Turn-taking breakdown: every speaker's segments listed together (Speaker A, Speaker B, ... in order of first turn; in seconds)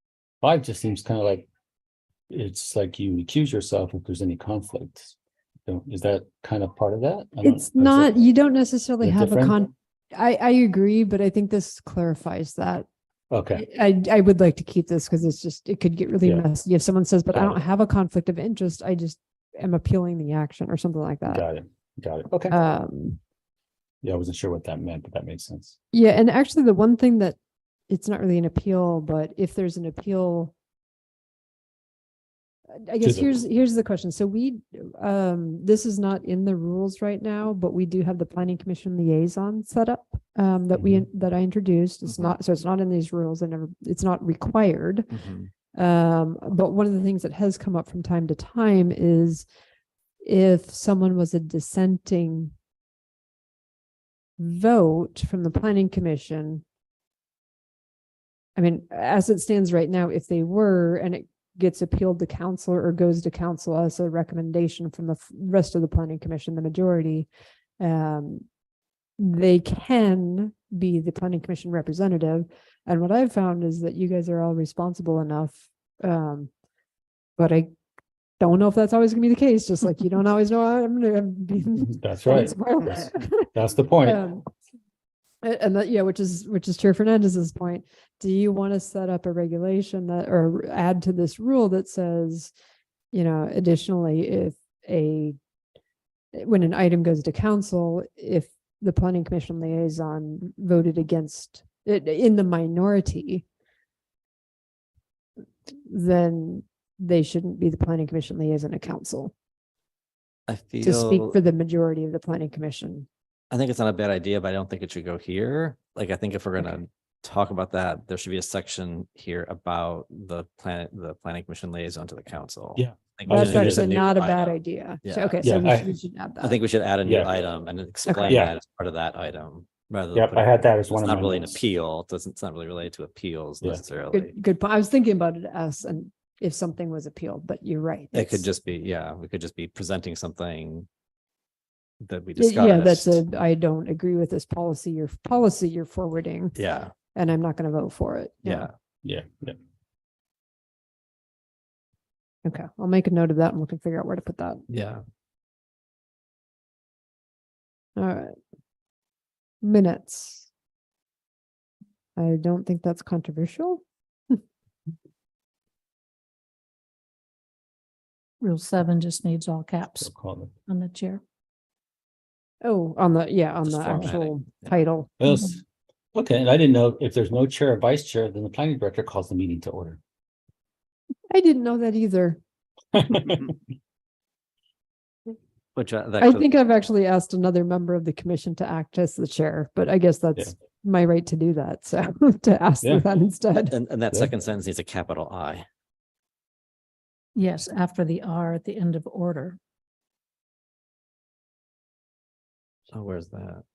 Speaker A: 0.4-1.5, 2.3-5.1, 5.7-8.1, 9.0-9.6, 13.3-13.6, 21.2-22.6, 24.0-25.8, 33.0-33.4, 40.7-41.0, 81.8-84.2, 122.8-123.9, 125.4-125.9, 127.0-127.3, 128.3-128.5, 130.2-131.6, 149.0-149.6, 170.0-170.5, 175.2-175.6, 176.2-180.0, 182.9-183.5
Speaker B: 7.4-12.9, 13.6-21.4, 22.5-23.2, 25.9-27.4, 27.9-30.5, 32.8-45.1, 45.7-49.5, 50.2-52.5, 54.4-56.6, 58.5-67.3, 67.8-68.4, 69.2-76.5, 77.4-77.7, 78.4-83.5, 84.0-84.4, 85.4-92.5, 93.1-95.4, 96.3-103.4, 105.9-109.3, 110.8-113.1, 123.3-126.6, 128.1-128.3, 134.1-138.5, 142.4-146.5, 147.1-148.7, 152.4-154.6, 158.0-158.3, 159.6-160.5, 162.2-164.4, 172.6-175.1, 181.3-182.4, 186.2-193.8
Speaker C: 45.1-45.5, 110.5-111.4, 113.5-125.4, 126.4-134.3, 138.1-140.9, 142.0-143.2, 146.5-146.9, 148.4-148.7, 154.7-155.0, 173.7-174.7, 185.8-186.5, 193.7-195.7, 202.9-203.6
Speaker D: 168.4-170.1, 170.7-171.2, 197.3-199.6